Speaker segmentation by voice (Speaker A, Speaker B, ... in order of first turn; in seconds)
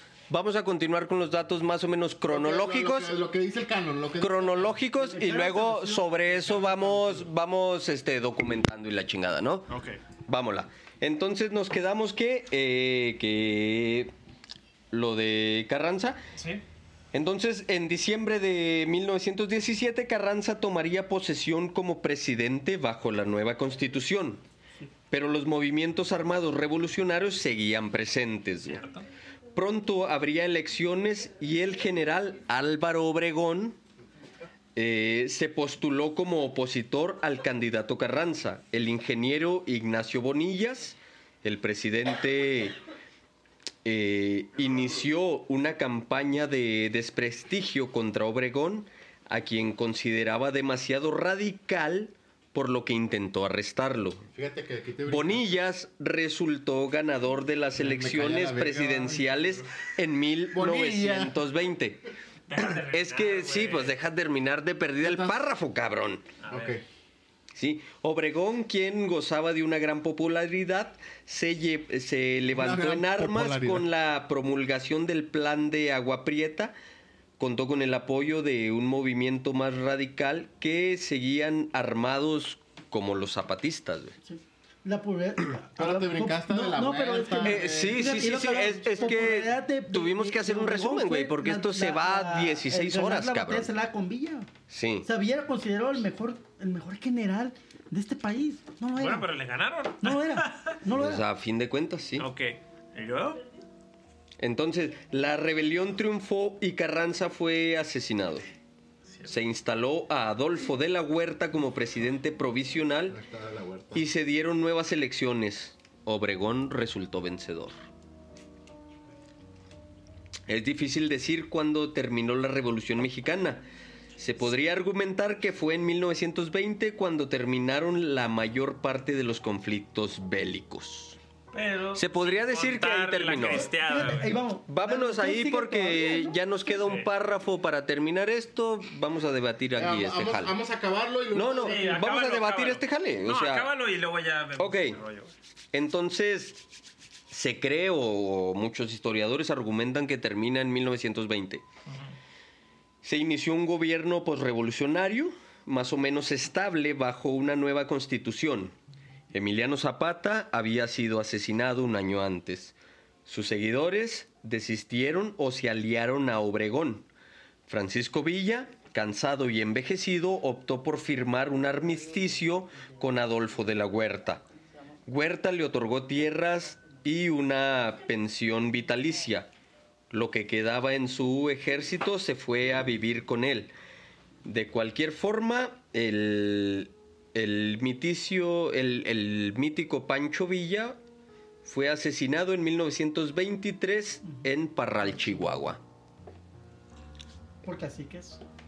Speaker A: 0.3-3.2, 4.2-9.7, 10.3-14.1, 14.9-16.2, 17.1-24.4, 25.1-28.8, 29.6-33.8, 34.8-42.8, 43.9-54.2, 55.1-62.1, 62.6-66.3, 67.5-76.7, 77.4-84.2, 87.4-93.7, 94.7-95.1, 100.9-102.3, 104.4-108.5, 109.3-113.2, 113.9-117.7, 120.5-123.6, 124.2-131.2, 132.0-133.7, 134.7-140.6, 141.3-143.7, 144.6-145.0, 145.7-146.6, 147.3-151.7, 153.0-158.8, 159.3-167.1, 167.7-174.4, 175.1-179.5, 180.1-183.7, 184.4-191.0, 191.6-195.8
Speaker B: 2.3-4.8, 54.3-55.5, 57.8-59.5, 60.5-61.4, 65.0-65.4, 66.5-66.8, 72.5-73.9, 85.8-88.2, 113.1-114.0, 139.8-141.9
Speaker C: 5.0-7.1, 84.2-94.5, 95.0-99.3, 100.0-101.2, 133.4-136.4, 197.6-198.4
Speaker D: 9.7-10.0, 16.4-16.6, 28.6-29.0, 62.5-64.0, 66.4-66.8, 99.0-100.8, 102.2-103.4, 131.5-134.4, 136.8-137.1, 141.6-145.3